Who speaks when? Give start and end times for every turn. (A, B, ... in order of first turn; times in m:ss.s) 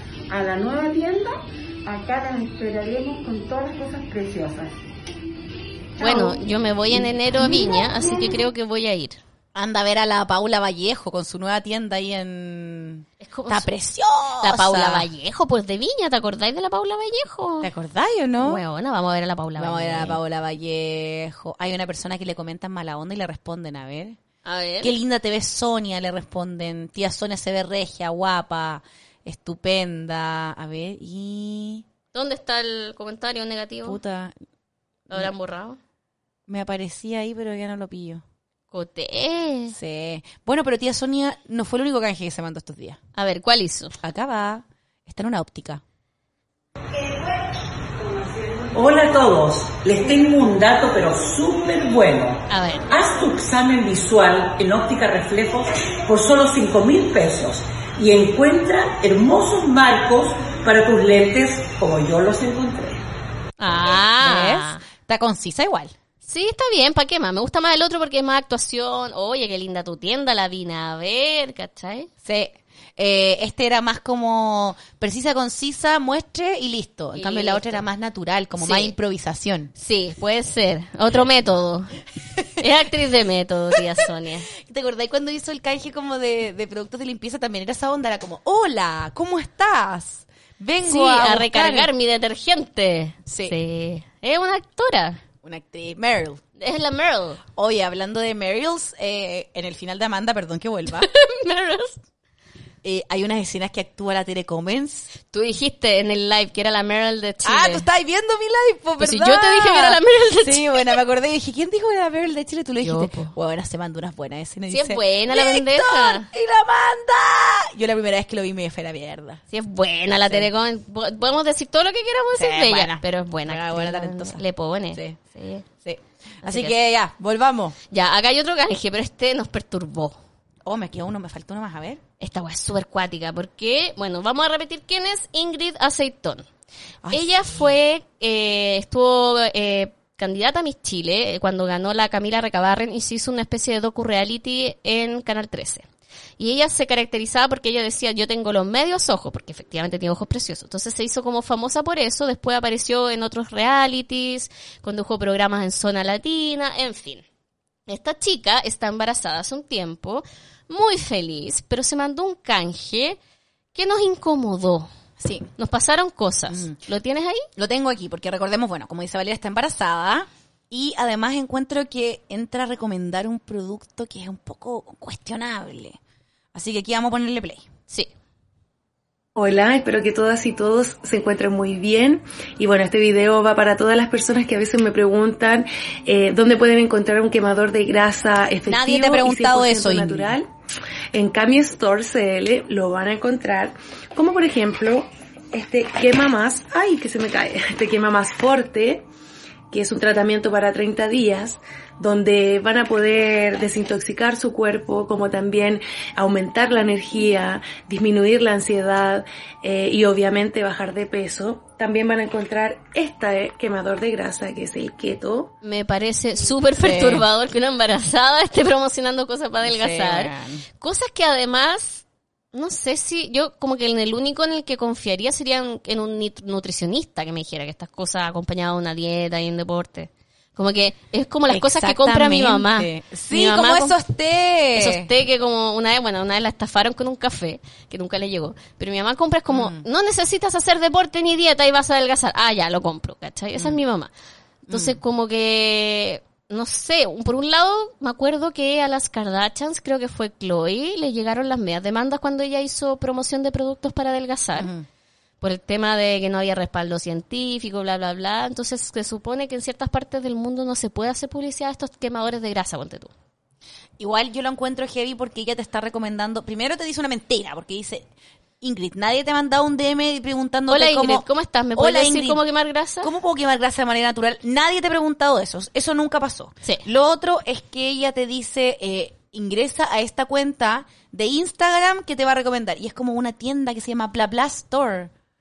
0:00.3-0:04.8 A
0:06.0-0:06.4 A
0:06.0-0:09.2 B
0:07.4-0:08.4 A
0:09.6-0:15.1 C
0:13.2-0:13.7 B
0:14.4-0:17.7 B
0:17.6-0:18.6 C
0:18.4-0:20.2 B
0:19.6-0:24.2 C
0:24.4-0:25.0 B
0:24.8-0:31.8 C
0:32.1-0:34.0 B
0:33.8-0:34.4 C
0:35.1-0:35.8 B
0:36.5-0:38.2 C
0:38.7-0:39.8 B
0:39.7-0:43.0 C
0:43.2-0:44.0 B
0:44.0-0:45.8 C
0:48.7-1:03.0 D
0:52.5-0:52.9 B
1:03.6-1:04.8 B
1:04.2-1:05.9 C
1:06.2-1:12.1 B
1:12.2-1:19.7 C
1:17.1-1:17.8 B
1:18.6-1:18.9 B
1:19.8-1:22.0 B
1:22.6-1:24.5 B
1:24.6-1:31.9 C
1:30.8-1:35.2 B
1:33.3-1:33.6 C
1:35.4-1:36.4 C
1:36.6-1:37.4 B
1:37.6-1:41.1 C
1:40.9-1:42.0 B
1:42.8-1:45.1 C
1:45.2-1:47.9 B
1:47.4-1:59.4 C
1:49.0-1:51.0 B
1:52.8-1:53.3 B
1:54.7-1:56.3 B
1:59.5-2:05.7 B
2:02.4-2:05.2 C
2:05.8-2:07.8 C
2:06.4-2:06.7 B
2:07.9-2:10.2 B
2:10.6-2:12.0 C
2:12.2-2:16.5 B
2:17.0-2:17.6 C
2:17.1-2:25.9 B
2:26.4-2:37.2 B
2:37.9-2:43.2 B
2:43.7-2:44.9 B
2:45.2-2:45.5 C
2:45.6-2:47.5 B
2:46.5-2:46.8 C
2:47.6-2:56.0 C
2:56.5-2:57.6 C
2:59.4-3:10.5 E
3:08.7-3:10.4 C
3:11.1-3:19.1 E
3:19.7-3:35.5 E
3:35.6-3:54.0 B
3:36.8-3:37.3 C
3:39.6-3:40.6 C
3:51.5-3:55.1 C
3:54.7-4:04.1 B
3:59.5-3:59.8 C
4:04.7-4:14.7 B
4:04.7-4:05.0 C
4:14.6-4:14.9 C
4:15.4-4:23.1 B
4:24.0-4:28.1 C
4:28.6-4:32.4 C
4:30.7-4:33.1 B
4:33.0-4:45.1 C